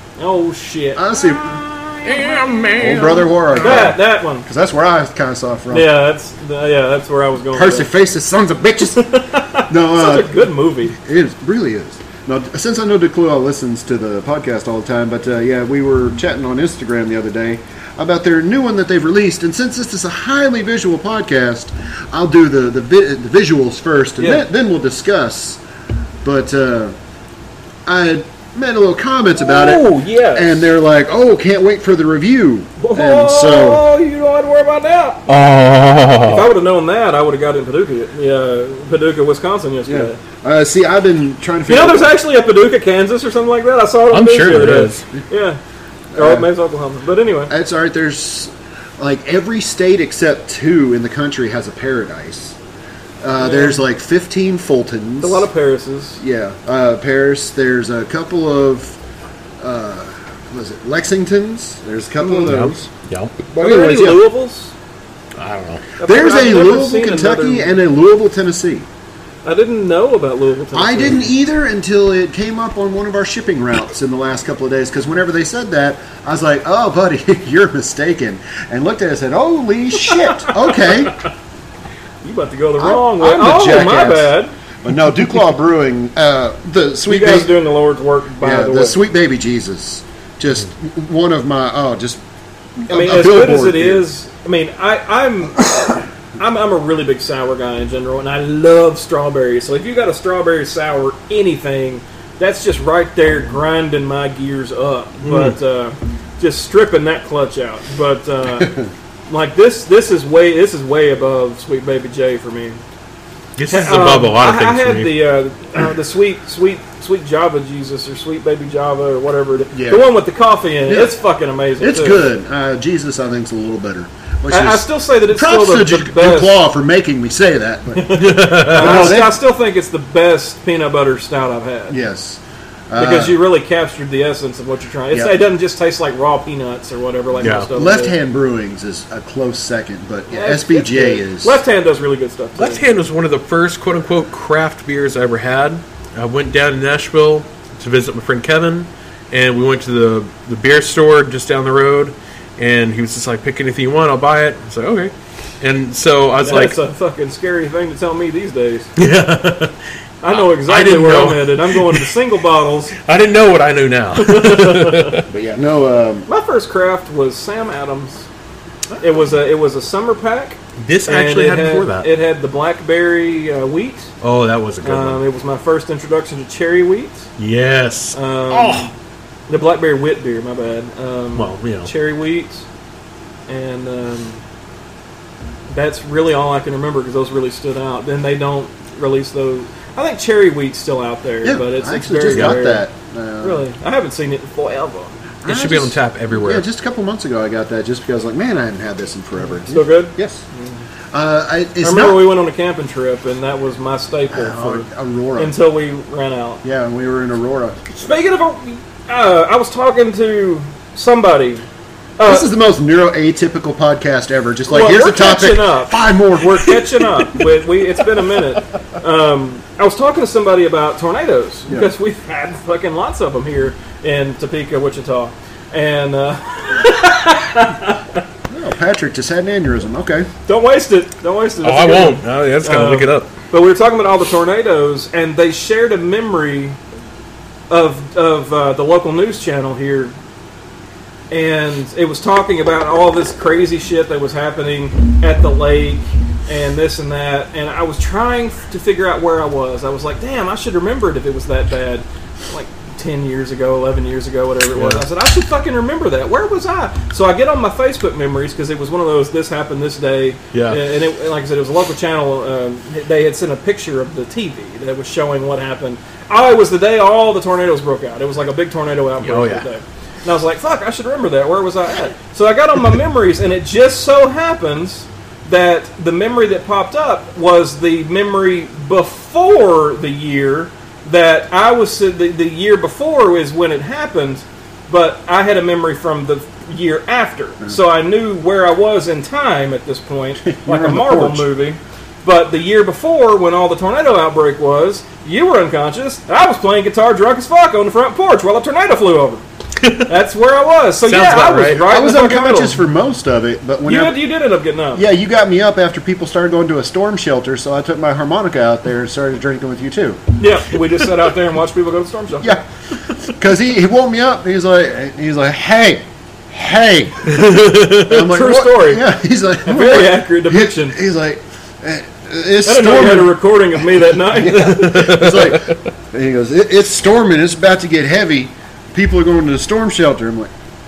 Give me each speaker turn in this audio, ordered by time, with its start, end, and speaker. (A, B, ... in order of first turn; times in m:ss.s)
0:00.2-0:01.2 A
0:01.0-0:05.9 B
0:02.0-0:03.9 C
0:03.6-0:04.4 A
0:05.7-0:07.9 A
0:07.5-0:09.0 B
0:08.9-0:11.0 A
0:09.7-0:25.6 B
0:24.2-0:24.4 A
0:26.2-0:26.9 B
0:27.8-0:33.8 B
0:29.4-0:30.7 A
0:32.8-0:35.2 A
0:35.3-0:36.5 C
0:36.2-0:40.2 A
0:39.8-0:42.1 B
0:41.7-0:45.6 A
0:44.1-0:45.0 C
0:46.1-0:46.5 B
0:46.1-0:47.5 A
0:47.5-0:52.6 B
0:53.2-0:55.5 B
0:53.4-0:53.8 A
0:55.2-0:56.2 A
0:56.2-0:59.0 B
0:59.6-1:02.9 B
1:02.4-1:03.5 C
1:03.5-1:04.2 B
1:03.6-1:04.7 A
1:05.4-1:05.8 C
1:06.0-1:07.7 A
1:06.0-1:08.9 B
1:09.4-1:11.3 A
1:10.7-1:21.2 B
1:22.2-1:24.5 A
1:22.8-1:27.5 B
1:27.1-1:29.0 A
1:28.4-1:32.2 B
1:32.8-1:34.0 B
1:32.9-1:48.8 A
1:45.2-1:45.5 C
1:49.3-1:52.8 A
1:53.6-1:55.1 C
1:53.7-2:02.2 A
1:59.7-2:00.1 B
2:00.8-2:01.2 B
2:01.8-2:09.4 B
2:04.5-2:06.6 A
2:07.9-2:12.0 A
2:08.1-2:09.2 C
2:11.9-2:13.4 B
2:13.0-2:18.2 A
2:15.1-2:15.4 B
2:17.4-2:17.7 C
2:17.7-2:21.6 B
2:20.3-2:22.8 A
2:22.6-2:36.8 C
2:36.4-2:38.9 A
2:39.0-2:39.8 C
2:40.2-2:43.0 A
2:40.3-2:42.1 C
2:43.0-2:45.3 C
2:44.2-2:45.2 A
2:45.3-2:46.3 B
2:46.3-2:48.3 A
2:49.0-2:54.1 A
2:50.8-2:52.1 C
2:54.2-2:55.2 C
2:54.8-2:57.3 A
2:57.4-2:58.9 C
2:58.1-2:58.9 A
2:59.5-3:02.6 A
3:01.3-3:01.9 C
3:03.5-3:04.4 A
3:05.7-3:12.8 A
3:11.4-3:13.6 B
3:13.4-3:15.1 A
3:15.4-3:20.4 B
3:15.4-3:16.6 C
3:19.7-3:20.8 A
3:21.1-3:22.3 B
3:21.8-3:24.8 A
3:24.3-3:25.5 B
3:25.4-3:26.6 A
3:26.6-3:27.9 B
3:27.9-3:31.6 A
3:32.2-3:32.5 A
3:32.2-3:36.9 B
3:34.7-3:48.2 A
3:48.5-3:50.3 B
3:50.4-3:56.8 A
3:51.6-3:53.3 C
3:57.7-4:00.1 A
4:01.3-4:59.4 A
4:14.7-4:15.0 C
4:20.5-4:20.8 C
4:29.2-4:29.6 C
4:50.4-4:51.5 B
4:59.8-5:00.1 C
5:00.0-5:02.8 A
5:01.0-5:01.8 C
5:01.8-5:04.2 B
5:03.8-5:05.0 A
5:04.9-5:10.2 B
5:10.4-5:12.6 A
5:13.2-5:30.5 B
5:17.3-5:17.9 C
5:17.5-5:19.0 A
5:19.6-5:21.0 A
5:22.6-5:25.3 A
5:24.6-5:25.8 C